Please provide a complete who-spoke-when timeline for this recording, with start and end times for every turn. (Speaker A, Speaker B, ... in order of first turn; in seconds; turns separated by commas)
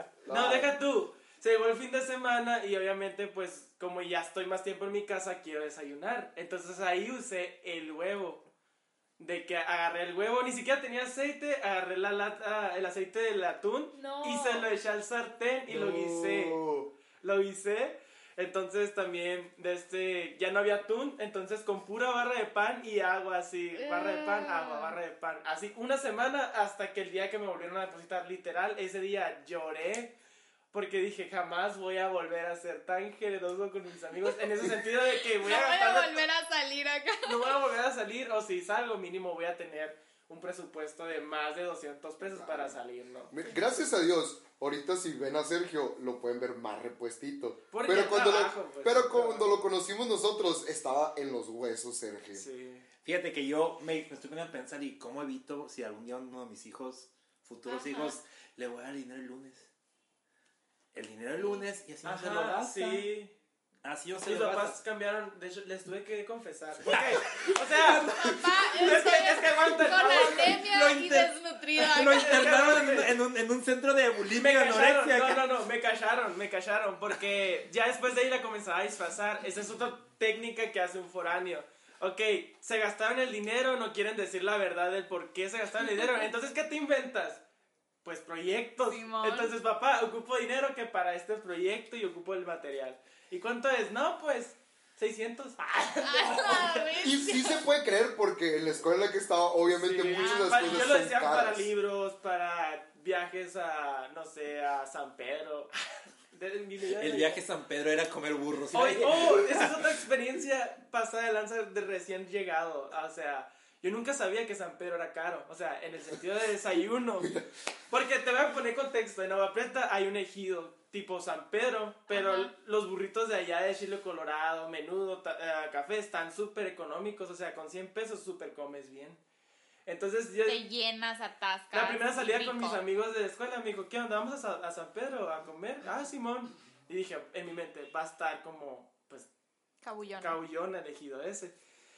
Speaker A: 0.2-0.7, Speaker B: 0.3-8.4, Speaker B: 9.2-16.6, Speaker C: 13.9-14.7, Speaker A: 15.7-16.9, Speaker B: 17.2-30.1, Speaker C: 23.7-25.0, Speaker B: 30.7-36.2, Speaker C: 35.4-37.6, Speaker B: 37.2-43.3, Speaker A: 42.2-42.8, Speaker A: 43.3-52.4, Speaker B: 47.7-49.6, Speaker B: 52.3-52.9, Speaker D: 53.0-59.7, Speaker C: 57.7-58.2, Speaker D: 60.9-63.0, Speaker B: 62.0-63.3, Speaker D: 63.8-64.8, Speaker B: 64.2-70.7, Speaker D: 66.8-68.9, Speaker C: 68.1-72.7, Speaker D: 70.4-75.4, Speaker B: 72.1-73.2, Speaker B: 74.3-87.4, Speaker B: 88.0-97.0, Speaker C: 88.9-89.5, Speaker C: 96.0-97.6, Speaker A: 97.0-101.7, Speaker B: 99.6-105.7, Speaker C: 100.1-101.0, Speaker B: 106.3-107.4, Speaker D: 106.9-109.7, Speaker B: 108.7-117.3, Speaker A: 117.2-117.5, Speaker B: 117.9-129.2, Speaker C: 122.1-122.5, Speaker B: 129.8-130.6, Speaker C: 130.4-132.8, Speaker B: 131.7-139.3, Speaker C: 139.8-140.4, Speaker B: 140.2-141.6